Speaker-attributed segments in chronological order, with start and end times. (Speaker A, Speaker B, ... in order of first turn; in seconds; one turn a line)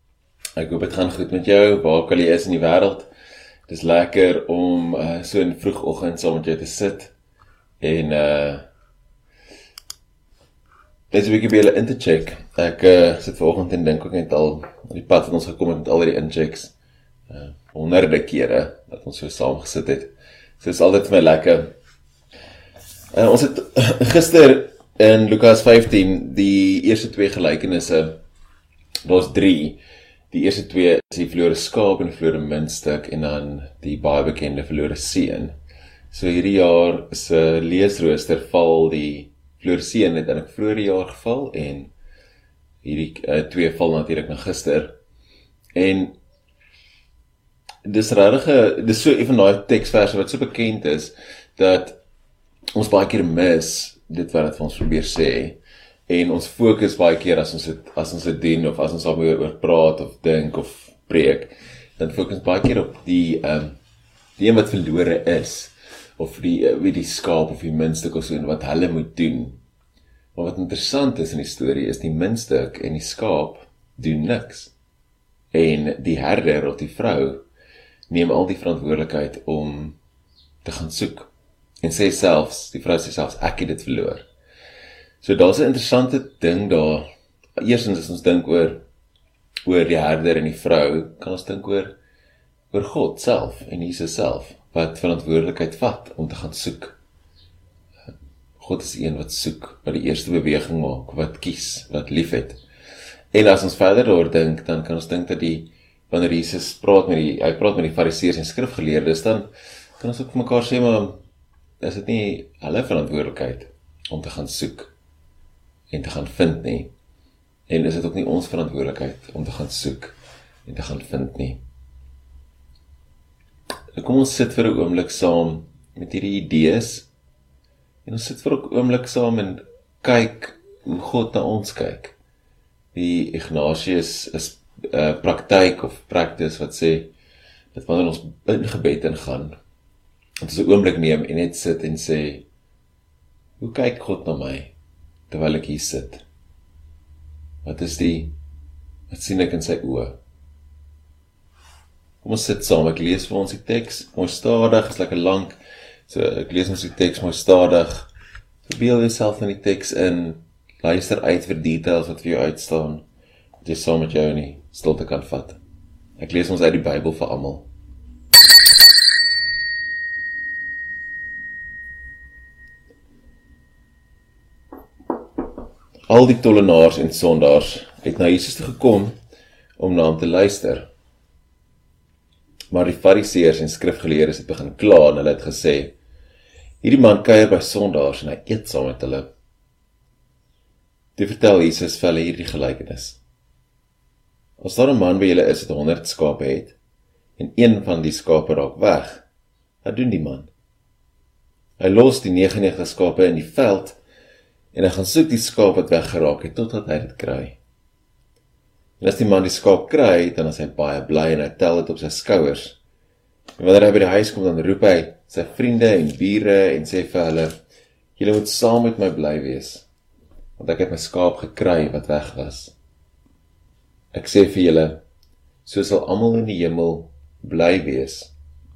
Speaker A: 0.6-3.1
Speaker A: 3.7-7.1
Speaker A: 7.8-8.6
Speaker A: 11.1-16.7
Speaker A: 17.3-21.7
Speaker A: 23.1-28.2
Speaker A: 29.0-29.8
Speaker A: 30.3-35.5
Speaker A: 36.1-41.9
Speaker A: 42.8-44.9
Speaker A: 45.7-46.1
Speaker A: 47.8-52.0
Speaker A: 52.7-63.8
Speaker A: 64.4-69.6
Speaker A: 70.3-74.7
Speaker A: 75.5-77.4
Speaker A: 78.1-80.0
Speaker A: 80.6-81.3
Speaker A: 81.8-84.3
Speaker A: 85.2-88.8
Speaker A: 89.6-91.9
Speaker A: 92.7-97.0
Speaker A: 98.6-102.6
Speaker A: 103.3-111.2
Speaker A: 111.8-114.9
Speaker A: 115.9-116.9
Speaker A: 117.7-120.1
Speaker A: 120.7-121.6
Speaker A: 123.9-127.1
Speaker A: 128.0-132.2
Speaker A: 132.9-137.1
Speaker A: 137.7-139.6
Speaker A: 140.4-142.4
Speaker A: 143.6-144.7
Speaker A: 145.3-146.2
Speaker A: 147.6-148.3
Speaker A: 149.1-150.2
Speaker A: 152.2-158.1
Speaker A: 158.7-163.0
Speaker A: 163.6-165.6
Speaker A: 166.2-167.7
Speaker A: 176.1-179.1
Speaker A: 179.8-180.9
Speaker A: 182.7-185.9
Speaker A: 186.8-189.3
Speaker A: 191.2-193.2
Speaker A: 194.6-196.8
Speaker A: 197.4-199.2
Speaker A: 199.8-200.5
Speaker A: 201.8-204.0
Speaker A: 204.7-207.6
Speaker A: 209.0-212.8
Speaker A: 213.6-217.5
Speaker A: 218.2-219.9
Speaker A: 220.6-222.7
Speaker A: 224.1-225.0
Speaker A: 225.6-228.3